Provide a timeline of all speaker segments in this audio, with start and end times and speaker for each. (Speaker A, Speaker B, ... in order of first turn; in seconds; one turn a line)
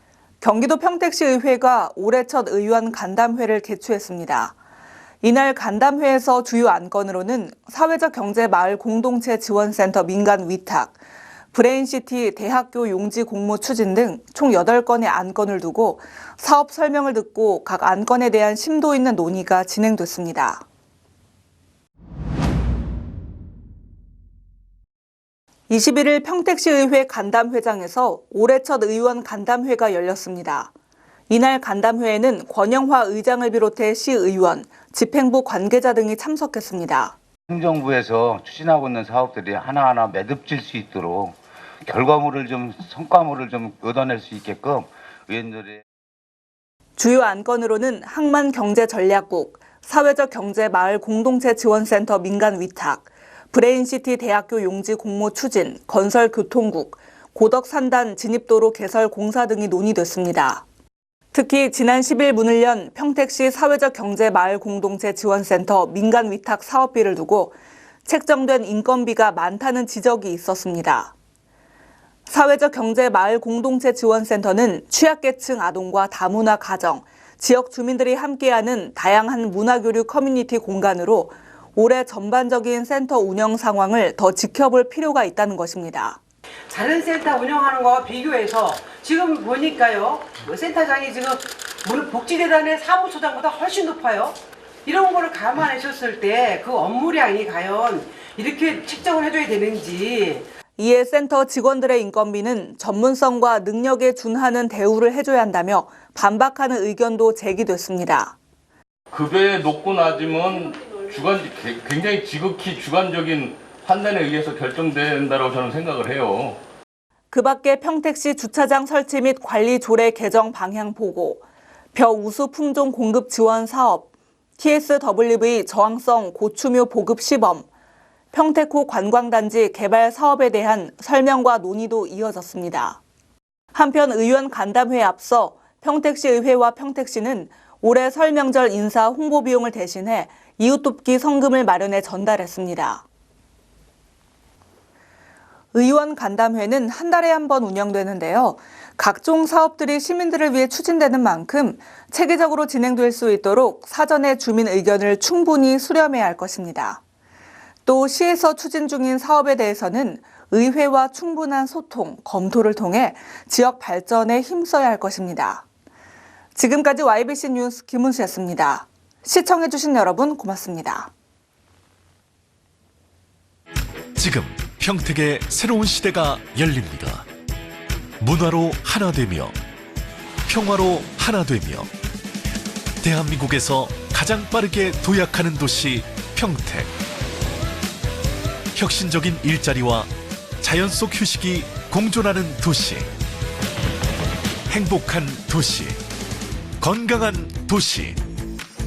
Speaker A: 0.4-4.5
Speaker A: 5.2-11.0
Speaker A: 11.5-20.6
Speaker A: 25.7-30.7
Speaker A: 31.3-37.1
Speaker B: 37.5-45.8
Speaker A: 47.0-60.6
Speaker A: 61.3-71.1
Speaker A: 72.3-86.2
Speaker C: 86.7-100.5
Speaker A: 100.8-108.3
Speaker D: 109.1-116.6
Speaker A: 117.3-127.7
Speaker A: 128.3-133.0
Speaker A: 133.7-143.0
Speaker A: 145.7-157.0
Speaker A: 157.8-165.6
Speaker A: 166.5-171.1
Speaker E: 174.2-177.2
Speaker E: 178.2-179.6
Speaker E: 180.5-181.9
Speaker E: 183.0-186.9
Speaker E: 188.7-193.1
Speaker E: 194.7-196.0
Speaker E: 196.8-198.2